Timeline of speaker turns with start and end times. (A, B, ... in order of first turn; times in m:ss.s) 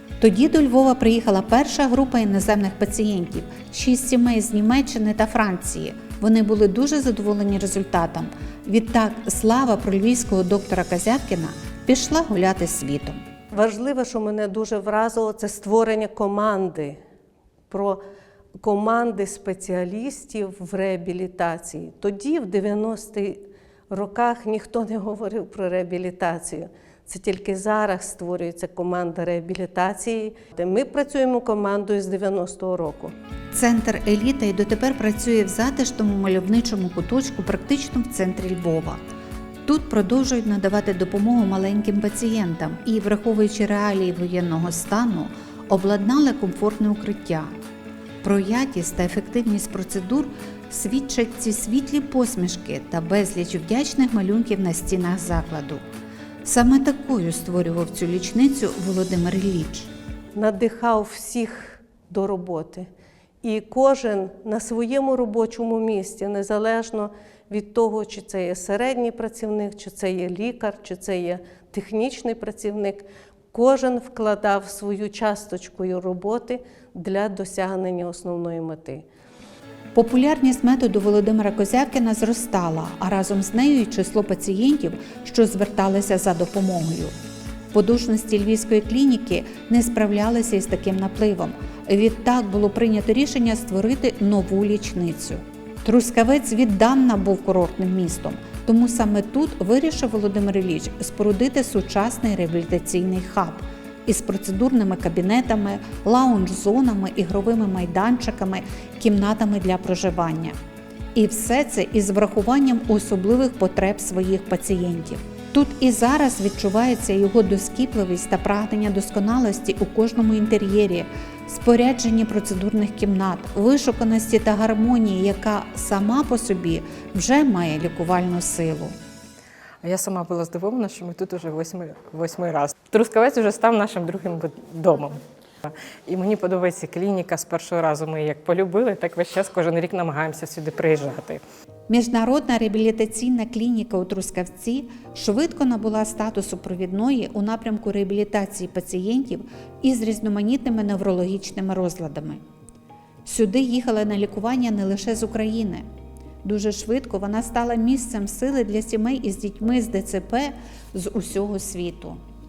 0:00.2-0:13.2 A
0:13.5-0:17.0 B
0:17.7-0:18.0 B
0:18.6-0:33.1 B
0:33.5-0:39.0 A
0:39.6-0:47.5 A
0:48.2-0:55.8 A
0:56.4-0:59.9 A
1:00.4-1:02.9 B
1:03.4-1:19.0 B
1:20.0-1:27.1 A
1:27.7-1:50.6 A
1:51.2-2:09.0 A
2:09.8-2:21.4 C
2:21.9-2:32.4 A
2:33.3-2:35.8 A
2:36.4-2:42.2 A